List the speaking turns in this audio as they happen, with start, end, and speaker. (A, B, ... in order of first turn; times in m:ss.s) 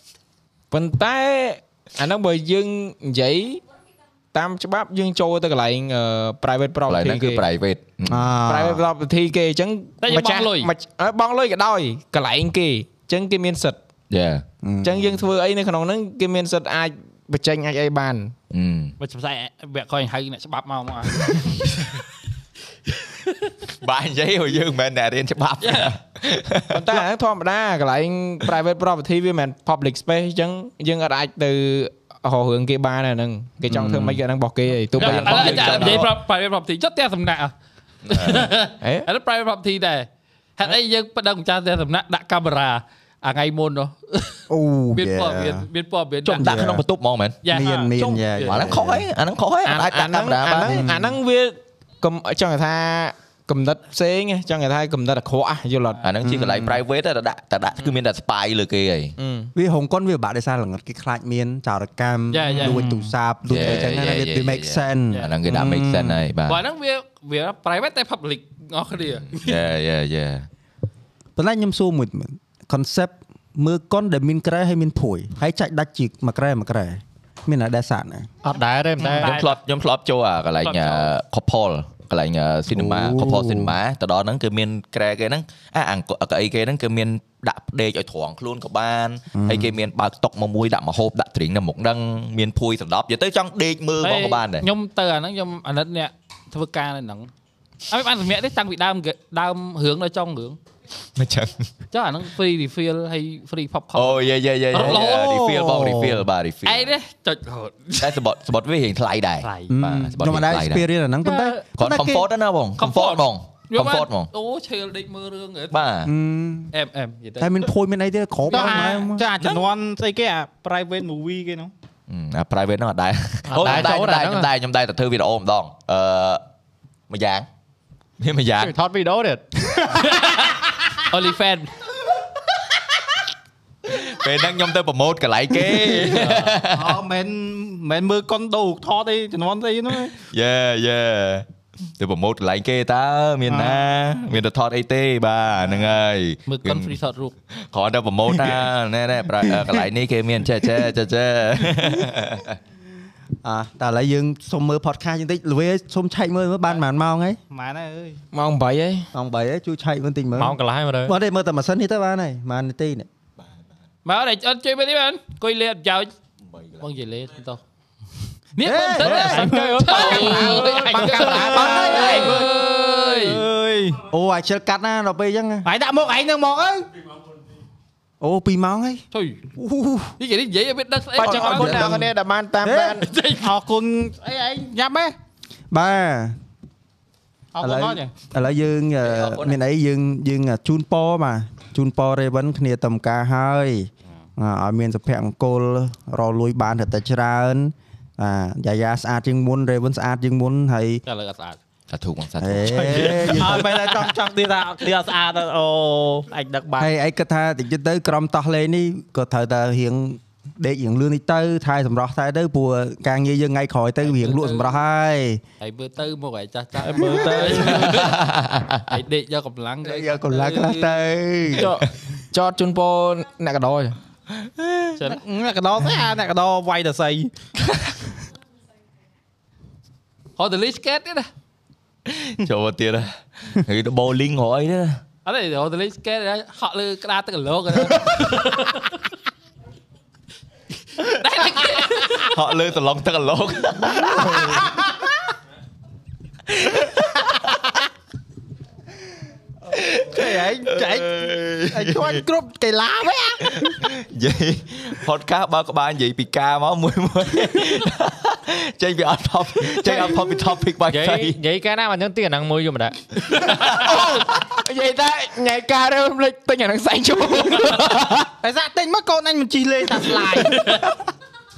0:00.7-0:03.6 A
0:04.3-0:07.4 A
0:06.9-0:08.2 B
0:08.1-0:08.8 C
0:08.5-0:13.8 A
0:10.0-0:10.7 D
0:14.1-0:14.4 B
0:14.6-0:15.0 C
0:14.8-0:18.3 A
0:18.5-0:19.0 B
0:19.0-0:21.7 D
0:23.8-0:27.0 B
0:25.6-0:25.9 D
0:26.7-0:36.1 A
0:33.7-0:34.2 C
0:34.9-0:36.1 B
0:35.0-0:37.5 D
0:38.1-0:38.7 B
0:38.1-0:44.4 D
0:44.5-0:45.7 C
0:45.0-0:46.6 D
0:46.3-0:47.4 B
0:46.4-0:46.8 C
0:47.4-0:48.8 D
0:47.5-0:49.1 C
0:47.6-0:47.9 E
0:48.5-0:50.8 B
0:49.6-0:56.0 A
0:50.6-0:51.0 C
0:56.0-0:59.1 B
0:56.2-0:56.8 C
0:59.2-0:59.5 A
0:59.6-1:06.2 C
1:02.3-1:02.9 D
1:02.4-1:03.1 E
1:03.5-1:06.6 B
1:06.5-1:09.6 D
1:09.3-1:10.5 B
1:11.4-1:18.3 C
1:18.4-1:19.5 F
1:19.2-1:19.4 D
1:19.2-1:34.7 B
1:20.6-1:21.1 D
1:22.7-1:23.8 C
1:29.3-1:29.7 C
1:34.0-1:37.3 D
1:37.9-1:40.6 D
1:41.2-1:41.7 B
1:41.9-1:45.5 D
1:43.9-1:46.9 B
1:44.8-1:46.3 C
1:46.6-1:48.2 D
1:48.0-1:50.8 B
1:49.4-1:49.7 D
1:49.7-1:52.2 C
1:51.2-1:51.6 F
1:51.8-1:54.3 B
1:52.8-1:55.7 D
1:55.7-1:56.1 B
1:56.0-1:56.7 C
1:56.7-1:57.7 D
1:57.4-1:59.3 C
1:58.5-2:01.7 E
2:02.1-2:06.4 B
2:03.5-2:04.5 F
2:07.1-2:07.5 B
2:08.2-2:08.7 B
2:08.6-2:09.4 F
2:11.0-2:11.7 D
2:13.9-2:17.0 B
2:16.0-2:16.6 D
2:16.7-2:20.2 E
2:20.1-2:21.5 B
2:22.0-2:27.0 B
2:23.5-2:24.1 E
2:26.5-2:27.3 D
2:27.6-2:32.6 B
2:33.4-2:37.4 C
2:37.5-2:38.2 E
2:38.3-2:39.1 A
2:39.1-2:43.1 C
2:40.4-2:41.1 F
2:44.0-2:46.1 D
2:46.8-2:47.6 D
2:48.6-2:53.4 D
2:48.6-2:49.5 C
2:49.0-2:50.6 E
2:49.1-2:51.6 F
2:50.9-2:52.3 A
2:51.0-2:52.5 C
2:51.2-2:54.0 E
2:54.1-2:55.7 C
2:55.6-2:56.9 E
2:58.2-2:59.0 C
2:59.1-2:59.4 D
2:59.6-3:00.2 C
3:00.2-3:02.0 D
3:01.2-3:03.1 A
3:01.2-3:02.1 C
3:02.6-3:03.0 C
3:03.0-3:03.6 D
3:03.4-3:05.1 E
3:05.7-3:06.4 C
3:07.5-3:08.1 E
3:07.6-3:21.0 C
3:09.0-3:09.6 B
3:21.1-3:21.6 D
3:21.9-3:23.2 B
3:22.4-3:23.7 C
3:22.7-3:26.9 E
3:26.8-3:35.4 C
3:34.0-3:34.7 D
3:35.6-3:38.2 D
3:36.9-3:37.8 A
3:37.0-3:37.8 C
3:37.1-3:37.7 E
3:37.9-3:38.9 B
3:38.8-3:41.1 D
3:39.8-3:41.7 C
3:41.5-3:44.0 A
3:44.4-3:45.0 B
3:45.0-3:47.3 E
3:50.4-3:51.3 D
3:52.1-3:55.0 B
3:55.2-3:58.9 D
4:01.0-4:02.3 D
4:02.3-4:04.7 B
4:06.5-4:07.3 B
4:09.8-4:12.2 B
4:10.0-4:13.8 E
4:13.5-4:21.4 B
4:20.9-4:23.0 F
4:23.4-4:24.2 B
4:23.6-4:28.3 A
4:28.4-4:30.7 E